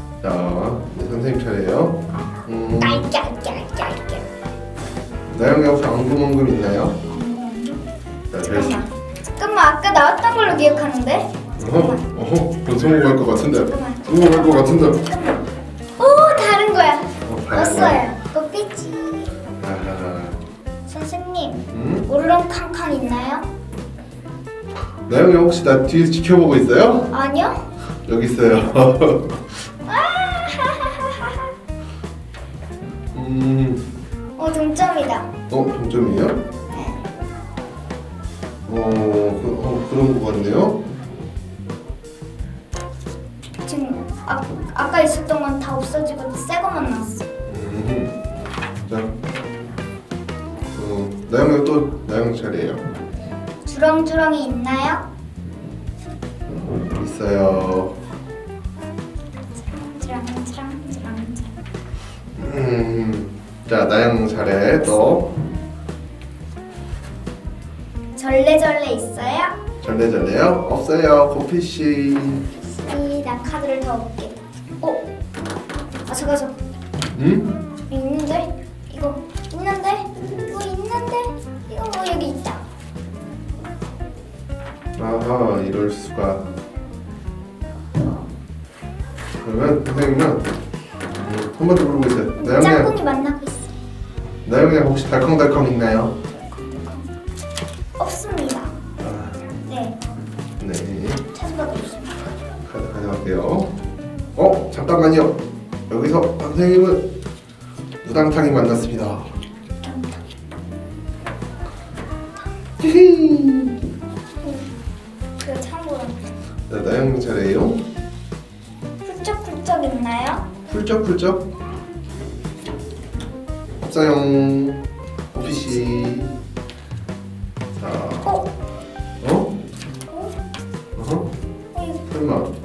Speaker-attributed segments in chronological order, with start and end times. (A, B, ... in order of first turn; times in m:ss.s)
0:00.2-0:03.1 A
0:02.8-0:04.2 B
0:05.3-0:07.0 A
0:07.0-0:07.8 B
0:08.3-0:08.8 A
0:08.4-0:12.0 B
0:11.6-0:15.0 A
0:13.5-0:19.3 B
0:17.2-0:18.0 A
0:19.6-0:20.4 A
0:20.8-0:23.5 B
0:21.7-0:22.1 A
0:25.1-0:27.1 A
0:27.1-0:27.7 B
0:28.0-0:29.4 A
0:29.8-0:31.4 B
0:33.1-0:33.8 A
0:34.4-0:35.3 B
0:35.5-0:36.4 A
0:36.7-0:37.0 B
0:38.6-0:40.8 A
0:43.6-0:47.2 B
0:47.5-0:48.2 A
0:48.9-0:49.1 A
0:50.7-0:52.8 A
0:53.6-0:55.1 B
0:56.5-0:58.0 A
0:59.6-1:01.5 B
1:02.4-1:05.3 A
1:04.8-1:05.1 B
1:08.2-1:09.6 B
1:09.8-1:12.4 A
1:12.7-1:15.0 B
1:16.1-1:16.6 B
1:17.1-1:17.5 A
1:17.9-1:22.6 B
1:25.0-1:26.5 A
1:28.0-1:28.2 B
1:29.4-1:30.5 A
1:31.1-1:32.9 A
1:32.4-1:33.7 B
1:34.4-1:36.1 A
1:36.4-1:37.1 B
1:38.0-1:38.8 B
1:39.0-1:39.4 A
1:39.6-1:40.0 B
1:40.6-1:41.2 A
1:41.3-1:42.3 B
1:42.6-1:43.7 A
1:44.3-1:47.1 A
1:48.0-1:49.3 A
1:49.8-1:50.2 B
1:52.8-1:53.8 A
1:54.4-1:54.7 B
1:55.4-1:56.3 B
1:56.7-1:57.8 A
1:59.0-2:00.5 B
2:00.7-2:01.5 A
2:03.8-2:06.4 A
2:07.8-2:08.3 A
2:09.2-2:09.5 A
2:10.1-2:10.3 B
2:11.0-2:11.3 A
2:11.7-2:12.0 B
2:12.1-2:12.5 A